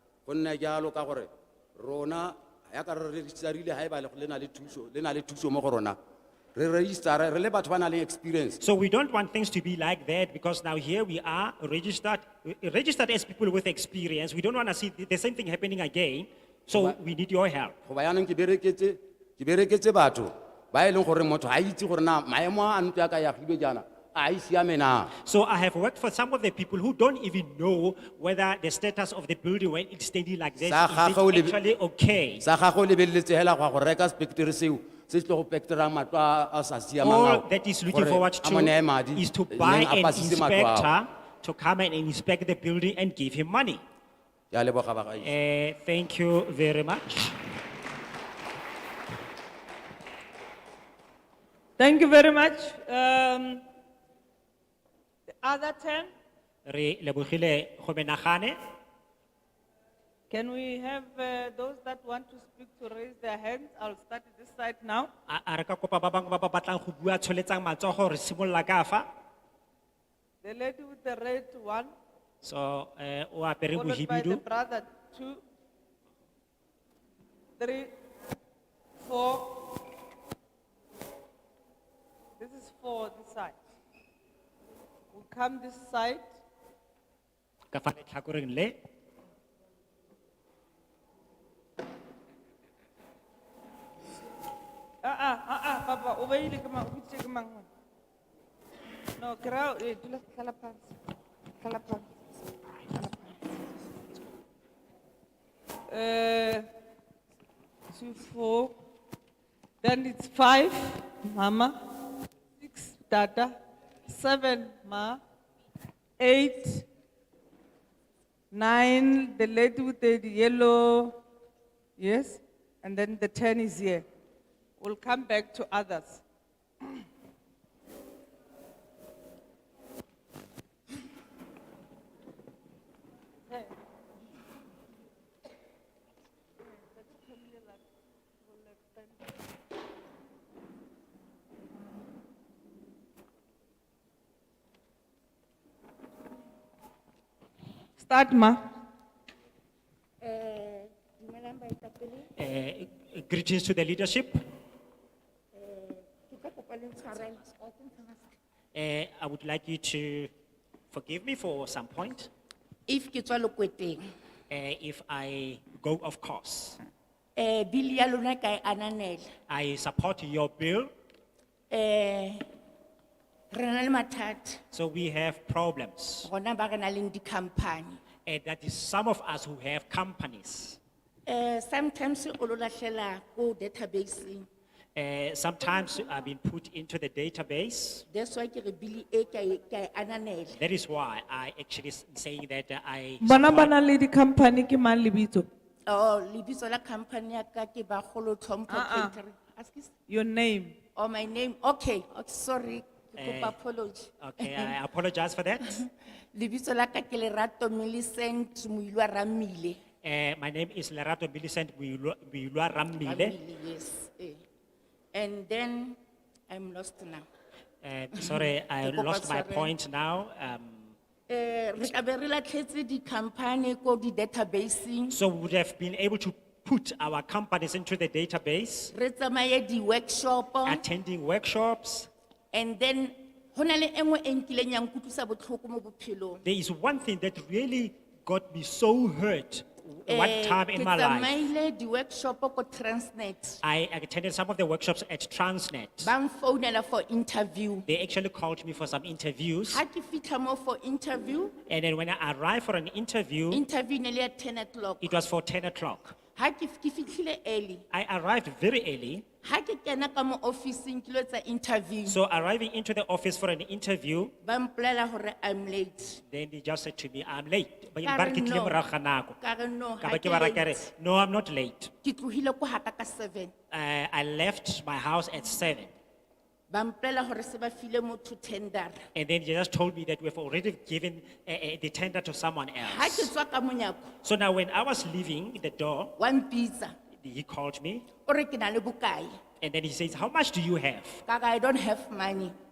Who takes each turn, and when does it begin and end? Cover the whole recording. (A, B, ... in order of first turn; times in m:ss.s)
0:00.2-0:06.0 A
0:06.5-0:08.6 A
0:08.6-0:17.8 B
0:17.9-0:25.1 A
0:25.2-0:32.4 B
0:30.6-0:31.6 A
0:32.4-0:40.9 A
0:37.0-0:43.8 B
0:44.5-0:45.3 A
0:45.2-0:47.4 B
0:51.8-0:53.6 C
0:55.3-0:56.1 C
0:56.6-0:58.6 B
1:00.3-1:05.1 C
1:05.3-1:09.1 B
1:10.4-1:11.9 C
1:12.4-1:14.4 B
1:13.7-1:15.4 C
1:17.6-1:17.9 C
1:19.0-1:19.6 C
1:22.4-1:23.6 C
1:25.1-1:26.4 C
1:27.7-1:28.8 B
1:35.0-1:37.7 C
1:39.2-1:40.9 C
1:41.6-1:42.1 C
1:42.9-1:43.3 C
1:45.9-1:46.7 C
1:47.9-1:48.7 C
1:49.8-1:51.8 C
1:52.6-1:55.2 C
1:56.2-1:56.9 C
1:58.5-2:01.2 C
2:02.0-2:04.0 C
2:04.8-2:06.2 C
2:17.0-2:17.8 C
2:18.5-2:19.0 C
2:28.0-2:28.7 C
2:30.2-2:32.3 D
2:32.4-2:34.4 B
2:35.5-2:38.3 D
2:38.7-2:40.3 B
2:40.9-2:42.3 B
2:42.9-2:44.0 D
2:44.5-2:46.8 B
2:47.4-2:49.3 D
2:49.5-2:50.9 B
2:51.7-2:52.4 D
2:53.5-2:54.6 D
2:54.7-2:56.3 B
2:56.2-2:58.0 D
2:58.2-3:00.8 B
3:01.2-3:04.4 D
3:05.0-3:08.0 B
3:08.1-3:10.5 D
3:10.5-3:13.7 B
3:13.2-3:15.5 C
3:15.9-3:19.9 D
3:18.7-3:19.1 C
3:20.1-3:20.8 C
3:21.0-3:24.8 D
3:23.2-3:23.6 B
3:24.2-3:25.8 B
3:25.6-3:29.8 D
3:30.0-3:33.4 B
3:33.0-3:34.4 D
3:35.1-3:36.0 D
3:36.5-3:37.2 D
3:37.8-3:40.9 B
3:38.2-3:39.7 D
3:41.3-3:45.2 D
3:45.1-3:48.9 B
3:48.9-3:50.8 D
3:50.6-3:52.1 B
3:52.5-3:56.4 D
3:56.4-4:01.4 B
4:00.1-4:03.6 D
4:03.6-4:06.1 B
4:06.0-4:07.8 D
4:07.8-4:09.8 B
4:09.7-4:11.6 D
4:11.7-4:13.6 B
4:13.5-4:15.2 D
4:15.0-4:16.2 B
4:16.4-4:17.8 D
4:17.9-4:19.2 B
4:19.4-4:22.2 D
4:22.0-4:24.3 B
4:24.4-4:26.2 D
4:26.3-4:29.4 B
4:28.0-4:28.8 D
4:29.4-4:30.8 D
4:30.0-4:31.9 B
4:32.0-4:33.5 D
4:33.7-4:35.9 B
4:36.7-4:39.0 D
4:39.1-4:43.3 B
4:42.8-4:44.1 D
4:44.2-4:46.1 B
4:46.2-4:46.9 D
4:47.2-4:48.1 B
4:48.2-4:49.3 D
4:49.6-4:51.2 B
4:51.2-4:52.5 D